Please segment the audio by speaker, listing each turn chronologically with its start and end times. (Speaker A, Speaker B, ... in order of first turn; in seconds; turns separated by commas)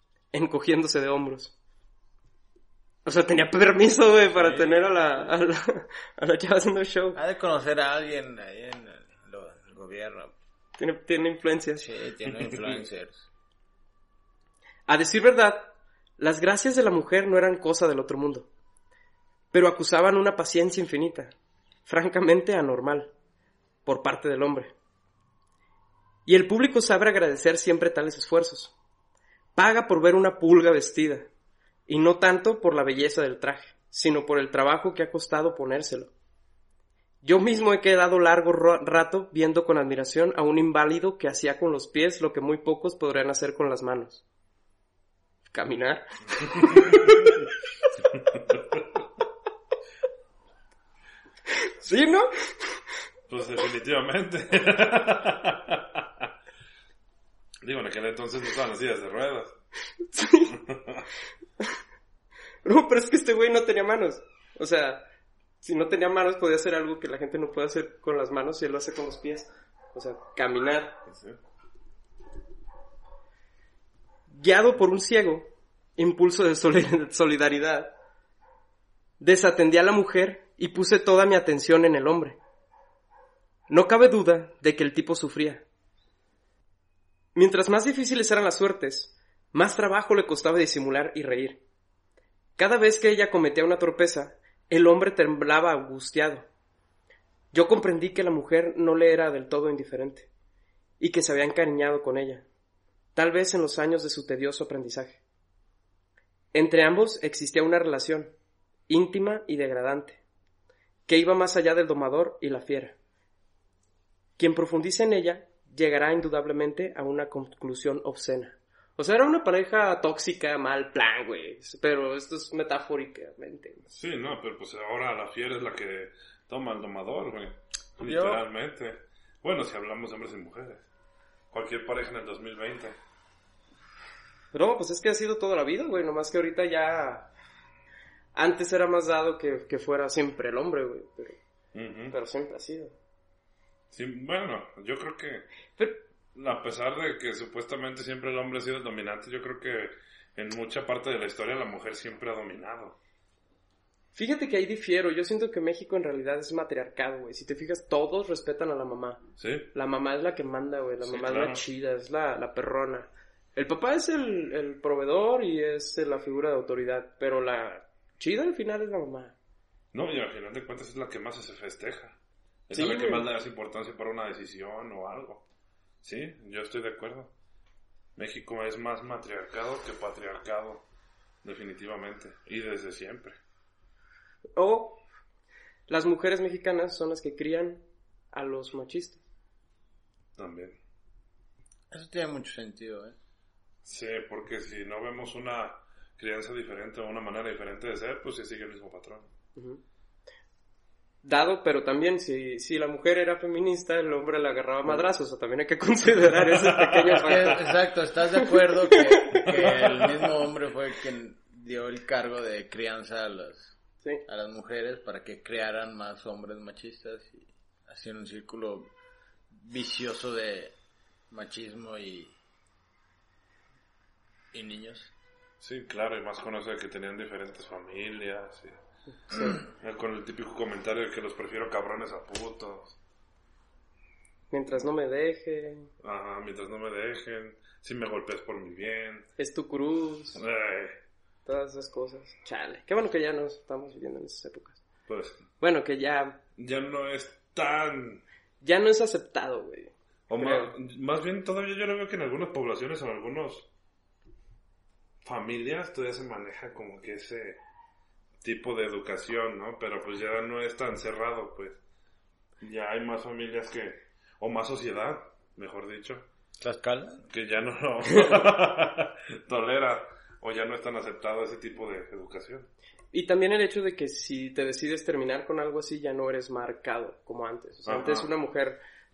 Speaker A: 0.3-1.5, Speaker A: 3.0-7.2, Speaker B: 4.3-4.8, Speaker B: 7.1-10.3, Speaker A: 10.8-11.9, Speaker B: 11.8-13.3, Speaker C: 12.4-12.7, Speaker A: 14.9-18.5, Speaker A: 19.5-21.3, Speaker A: 21.9-23.1, Speaker A: 23.8-24.7, Speaker A: 26.2-28.7, Speaker A: 29.6-31.3, Speaker A: 31.9-36.1, Speaker A: 37.2-44.2, Speaker A: 45.5-47.3, Speaker A: 51.6-52.8, Speaker C: 53.3-56.0, Speaker C: 57.6-59.5, Speaker A: 60.1-60.5, Speaker C: 60.7-61.0, Speaker A: 62.6-65.0, Speaker A: 65.6-71.0, Speaker C: 71.0-71.4, Speaker A: 74.3-77.9, Speaker A: 79.2-82.4, Speaker A: 83.7-85.6, Speaker A: 87.3-91.6, Speaker A: 92.6-96.5, Speaker A: 97.5-100.3, Speaker A: 101.0-102.5, Speaker A: 103.1-105.2, Speaker A: 106.5-108.3, Speaker A: 108.9-110.2, Speaker A: 111.1-113.0, Speaker A: 114.4-123.8, Speaker C: 123.9-130.9, Speaker B: 128.0-128.4, Speaker C: 131.5-132.9, Speaker A: 134.5-137.3, Speaker A: 138.3-141.4, Speaker C: 141.7-142.2, Speaker A: 142.1-142.9, Speaker C: 143.9-145.5, Speaker C: 146.3-153.0, Speaker A: 154.1-169.3, Speaker C: 159.4-159.7, Speaker C: 161.0-161.6, Speaker C: 169.9-172.2, Speaker C: 172.7-175.4, Speaker A: 172.7-173.2, Speaker C: 176.0-177.3, Speaker C: 178.2-180.8, Speaker C: 181.4-183.3, Speaker A: 184.6-185.0, Speaker A: 185.9-189.2, Speaker C: 190.4-190.8, Speaker B: 191.9-193.2, Speaker C: 193.8-199.3, Speaker A: 199.6-199.8, Speaker A: 201.2-207.7, Speaker C: 206.5-207.4, Speaker B: 207.1-218.9, Speaker A: 208.4-209.5, Speaker C: 209.6-209.9, Speaker B: 219.5-220.7, Speaker B: 221.3-222.3, Speaker B: 224.5-225.1, Speaker C: 225.6-228.8, Speaker A: 229.3-229.6, Speaker C: 229.6-233.0, Speaker A: 234.5-235.9, Speaker C: 236.0-239.3, Speaker A: 239.4-240.4, Speaker C: 240.3-240.9, Speaker A: 241.4-244.8, Speaker C: 245.1-245.4, Speaker A: 245.6-246.4, Speaker C: 246.6-248.2, Speaker A: 248.6-250.7, Speaker C: 250.3-253.7, Speaker C: 255.2-257.6, Speaker C: 258.4-261.8, Speaker C: 262.6-266.2, Speaker B: 266.6-267.2, Speaker C: 267.3-272.7, Speaker A: 273.1-278.8, Speaker C: 277.9-278.3